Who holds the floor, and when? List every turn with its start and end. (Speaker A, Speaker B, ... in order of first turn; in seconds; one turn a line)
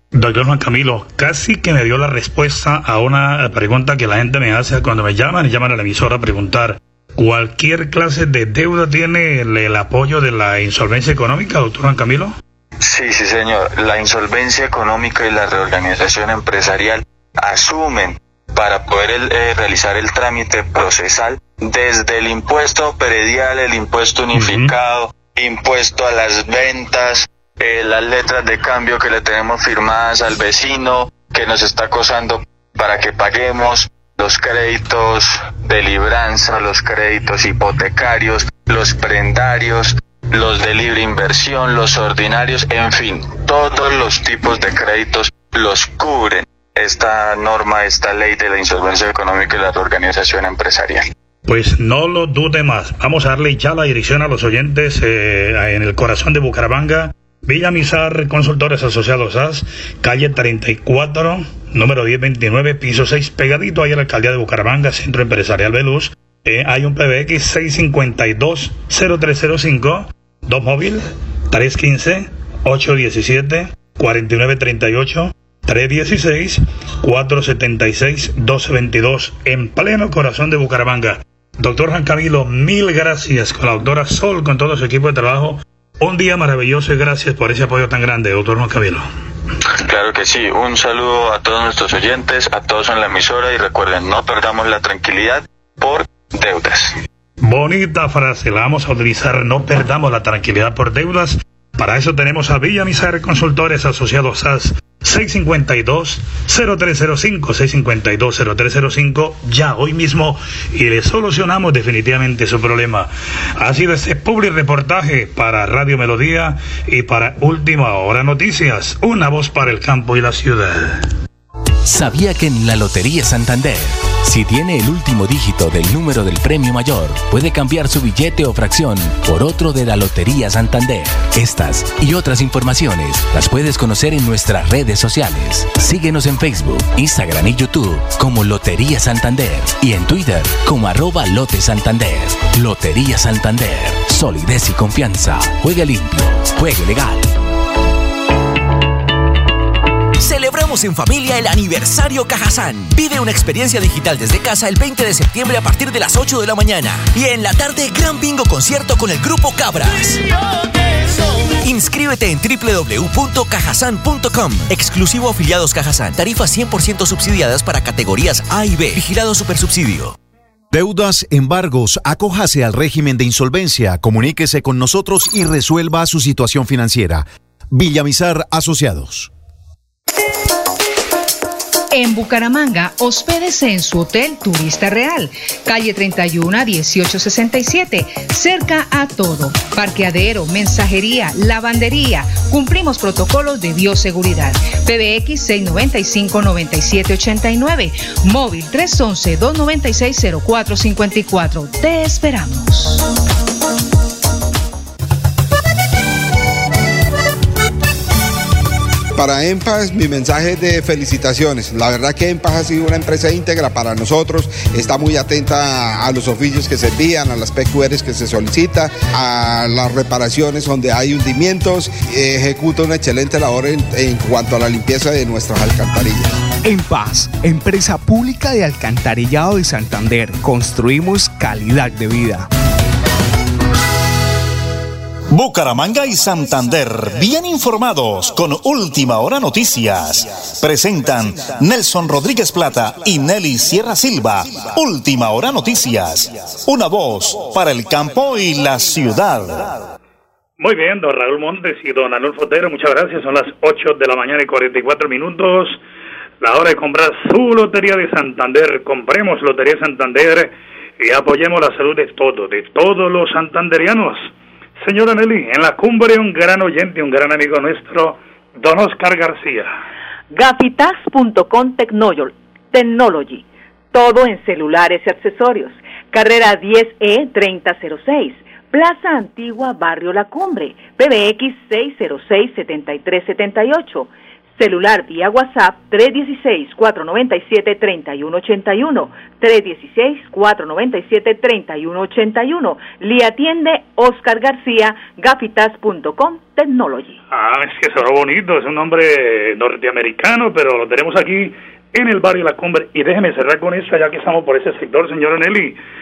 Speaker A: 0.1-12.3
Speaker B: 12.8-51.1
Speaker A: 24.4-24.7
Speaker A: 51.5-89.1
Speaker B: 89.8-97.0
Speaker A: 97.4-121.1
Speaker C: 121.9-147.3
Speaker D: 150.2-160.2
Speaker D: 161.6-170.2
Speaker E: 170.7-179.3
Speaker F: 181.9-203.1
Speaker G: 209.2-226.4
Speaker H: 226.6-232.5
Speaker I: 235.3-249.8
Speaker A: 250.6-255.8
Speaker A: 256.4-264.3
Speaker A: 264.8-269.7
Speaker J: 270.3-297.2
Speaker A: 297.3-305.8